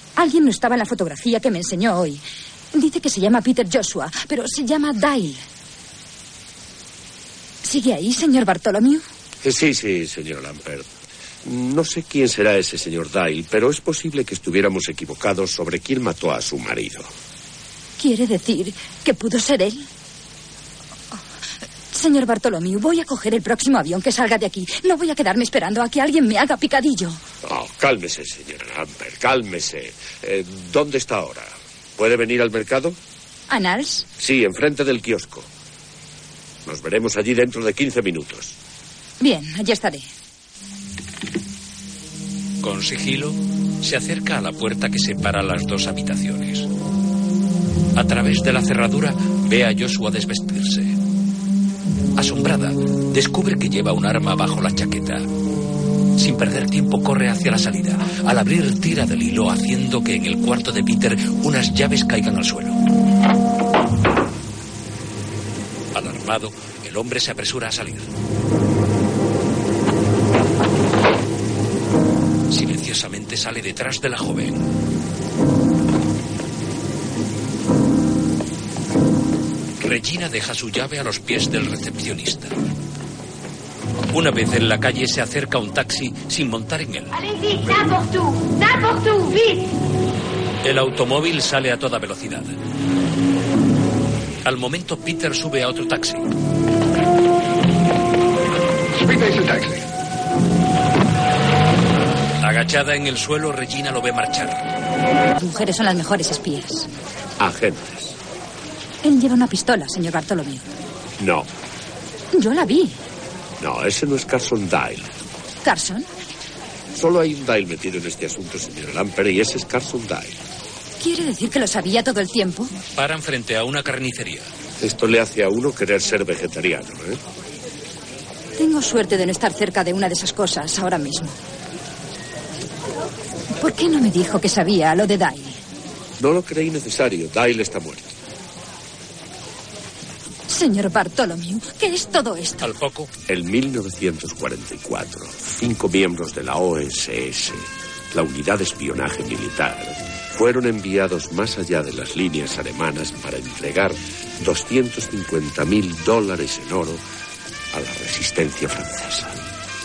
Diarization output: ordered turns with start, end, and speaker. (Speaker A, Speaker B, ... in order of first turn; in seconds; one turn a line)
Speaker A: 0.2-5.4
Speaker A: 7.6-9.0
Speaker B: 9.4-10.9
Speaker B: 11.4-17.1
Speaker A: 18.0-19.9
Speaker A: 21.9-27.2
Speaker B: 27.4-33.0
Speaker A: 33.5-34.1
Speaker B: 34.2-35.5
Speaker B: 36.7-38.6
Speaker A: 39.2-40.1
Speaker C: 42.6-46.7
Speaker C: 48.0-51.0
Speaker C: 52.2-55.3
Speaker C: 56.2-62.8
Speaker C: 65.9-68.1
Speaker C: 72.5-74.7
Speaker C: 79.8-82.5
Speaker C: 84.1-87.2
Speaker D: 87.2-89.7
Speaker C: 90.6-92.5
Speaker C: 94.5-96.2
Speaker C: 102.4-104.7
Speaker A: 105.4-106.9
Speaker B: 107.4-108.2
Speaker A: 109.0-110.7
Speaker B: 111.2-111.5
Speaker A: 112.3-113.0
Speaker B: 113.6-115.1
Speaker A: 115.6-116.1
Speaker B: 116.9-120.4
Speaker A: 121.0-122.7
Speaker C: 123.0-124.5
Speaker B: 124.8-127.2
Speaker A: 128.6-131.4
Speaker A: 133.6-135.6
Speaker B: 136.2-138.2
Speaker A: 140.5-142.7
Speaker C: 142.6-143.1
Speaker B: 143.3-157.0
Speaker B: 157.7-159.4